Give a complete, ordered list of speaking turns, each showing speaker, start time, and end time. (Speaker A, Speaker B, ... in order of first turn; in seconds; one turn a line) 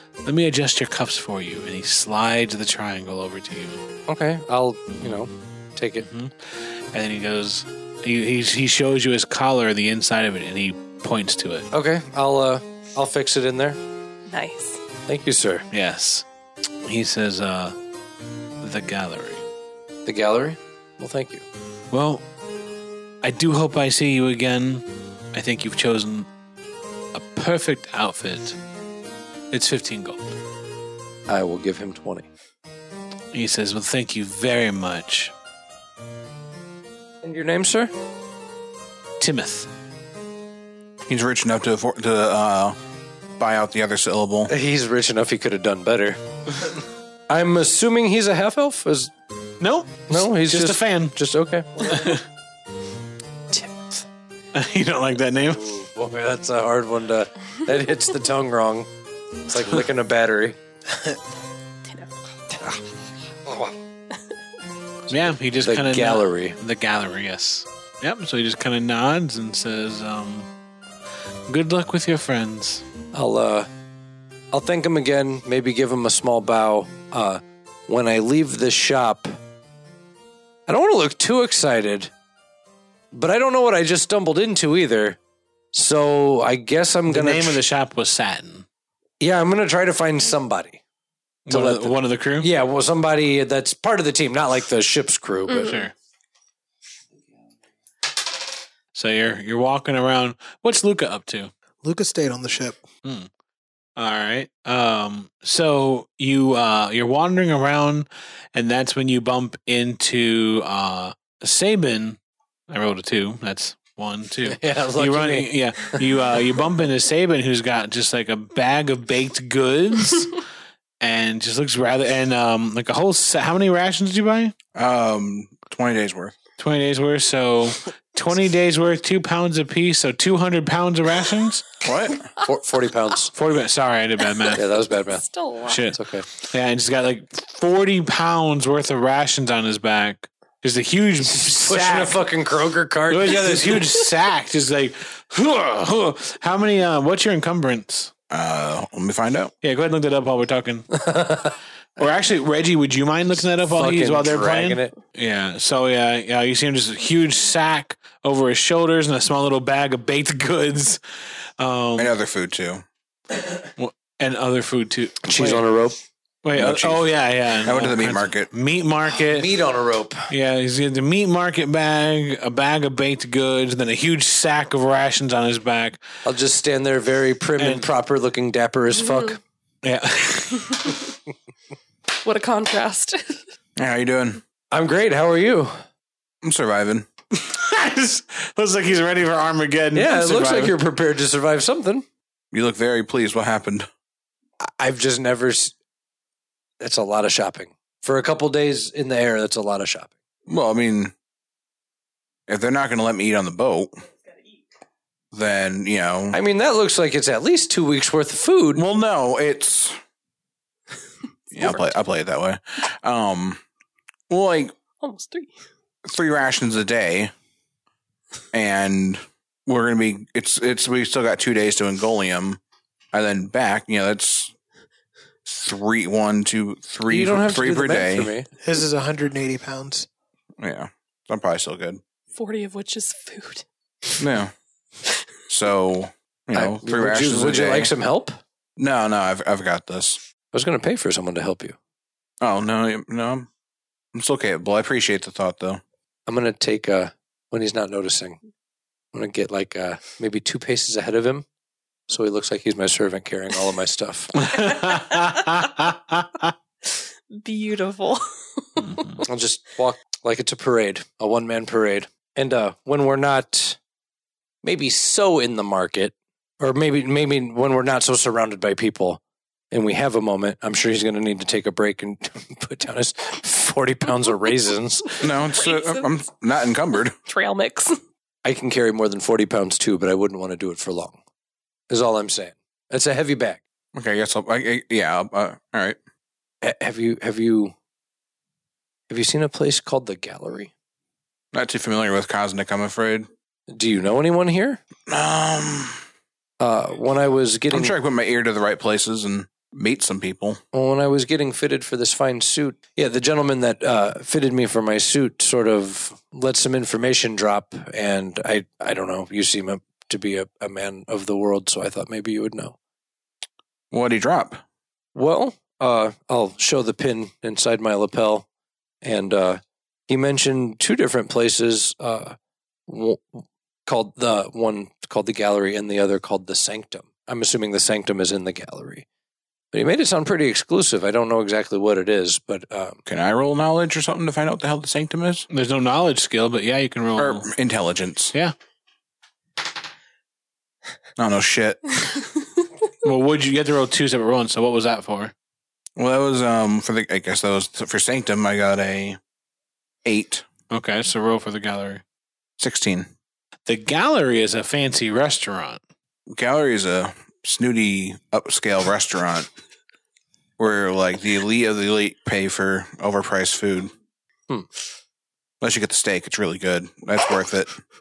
Speaker A: 0.2-3.8
Speaker B: 4.1-6.1
Speaker A: 6.0-11.7
Speaker B: 11.7-13.8
Speaker C: 14.3-14.8
Speaker B: 15.1-15.7
Speaker A: 15.7-16.3
Speaker A: 16.8-17.8
Speaker A: 18.6-19.4
Speaker B: 20.1-21.4
Speaker A: 21.9-22.2
Speaker A: 23.2-26.3
Speaker A: 27.1-28.6
Speaker A: 29.5-30.2
Speaker B: 31.3-32.3
Speaker A: 33.3-35.3
Speaker B: 37.2-37.9
Speaker A: 39.2-39.7
Speaker D: 41.1-42.8
Speaker D: 43.4-44.5
Speaker B: 44.5-46.8
Speaker B: 47.3-49.1
Speaker A: 49.6-51.2
Speaker B: 50.1-52.1
Speaker A: 51.9-52.2
Speaker A: 54.5-55.6
Speaker B: 55.5-58.9
Speaker B: 59.5-60.6
Speaker C: 61.9-62.1
Speaker B: 63.5-63.8
Speaker A: 65.1-70.5
Speaker B: 65.7-66.6
Speaker A: 71.5-72.8
Speaker B: 73.1-73.7
Speaker B: 74.5-79.4
Speaker B: 80.7-82.1
Speaker B: 83.1-85.2
Speaker B: 85.7-87.6
Speaker A: 87.1-88.7
Speaker B: 89.2-90.8
Speaker A: 91.5-92.5
Speaker B: 91.5-95.8
Speaker C: 95.5-95.8
Speaker A: 95.6-95.9
Speaker A: 98.9-101.5
Speaker E: 101.8-102.8
Speaker A: 103.0-103.3
Speaker A: 104.0-120.4
Speaker B: 114.5-116.0
Speaker A: 121.0-124.5
Speaker D: 124.8-126.3
Speaker A: 126.6-131.7
Speaker D: 131.8-132.3
Speaker B: 132.4-133.3
Speaker A: 133.3-134.6
Speaker B: 134.6-135.2
Speaker C: 135.1-135.9
Speaker A: 135.7-142.2
Speaker B: 135.9-136.3
Speaker B: 141.3-143.8
Speaker A: 143.1-148.1
Speaker D: 148.3-149.5
Speaker A: 149.6-151.0
Speaker B: 151.0-151.5
Speaker A: 152.0-161.0
Speaker B: 153.8-154.9
Speaker A: 161.6-162.1
Speaker D: 162.0-162.8
Speaker A: 163.8-165.7
Speaker B: 165.3-166.0
Speaker A: 166.4-169.6
Speaker D: 166.6-168.5
Speaker B: 169.2-170.3
Speaker A: 170.3-176.0
Speaker B: 176.2-179.4
Speaker A: 177.6-177.9
Speaker C: 178.9-179.4
Speaker A: 179.8-180.9
Speaker C: 180.7-180.9
Speaker C: 182.2-183.4
Speaker D: 183.8-184.4
Speaker B: 184.7-185.8
Speaker D: 186.4-187.1
Speaker A: 187.3-190.8
Speaker B: 189.9-192.1
Speaker D: 192.5-193.9
Speaker B: 194.6-195.8
Speaker B: 196.8-200.1
Speaker D: 200.5-201.1
Speaker D: 202.5-204.0
Speaker D: 205.3-206.4
Speaker B: 206.3-208.8
Speaker D: 208.8-210.0
Speaker D: 211.5-213.6
Speaker D: 214.3-214.8
Speaker C: 215.0-215.6
Speaker D: 216.1-217.3
Speaker D: 218.5-222.6
Speaker D: 223.1-224.5
Speaker D: 225.5-228.3
Speaker B: 227.1-228.5
Speaker E: 228.6-230.1
Speaker D: 230.6-232.0
Speaker C: 232.3-234.2
Speaker D: 234.2-234.5
Speaker D: 235.5-237.9
Speaker B: 236.5-238.4
Speaker D: 238.8-240.2
Speaker B: 240.5-241.8
Speaker D: 242.4-243.5
Speaker D: 244.1-245.8
Speaker B: 246.3-248.4
Speaker B: 249.1-251.5
Speaker B: 252.1-254.5
Speaker A: 254.4-256.5
Speaker C: 254.6-255.4
Speaker C: 256.9-259.1
Speaker A: 258.8-259.2
Speaker B: 259.2-263.8
Speaker B: 264.6-275.2
Speaker D: 275.2-277.2
Speaker C: 275.6-276.1
Speaker C: 277.3-278.0
Speaker B: 278.4-281.2
Speaker B: 281.9-283.6
Speaker D: 283.9-286.0
Speaker B: 286.6-287.7
Speaker B: 289.1-290.7
Speaker D: 291.5-293.3
Speaker B: 293.7-294.8
Speaker D: 295.1-296.0
Speaker B: 296.6-297.9
Speaker D: 297.7-300.6
Speaker B: 300.7-312.8
Speaker D: 313.9-314.6
Speaker B: 315.1-318.5
Speaker B: 319.0-329.1
Speaker B: 329.7-333.0
Speaker D: 333.1-335.5
Speaker A: 335.5-337.5
Speaker D: 337.2-338.3
Speaker D: 341.2-342.1
Speaker A: 343.0-345.3
Speaker D: 346.0-349.2
Speaker D: 350.1-350.4
Speaker A: 350.7-352.0
Speaker D: 352.6-353.1
Speaker A: 353.7-355.8
Speaker D: 356.3-359.5
Speaker D: 360.6-363.9
Speaker D: 365.6-367.8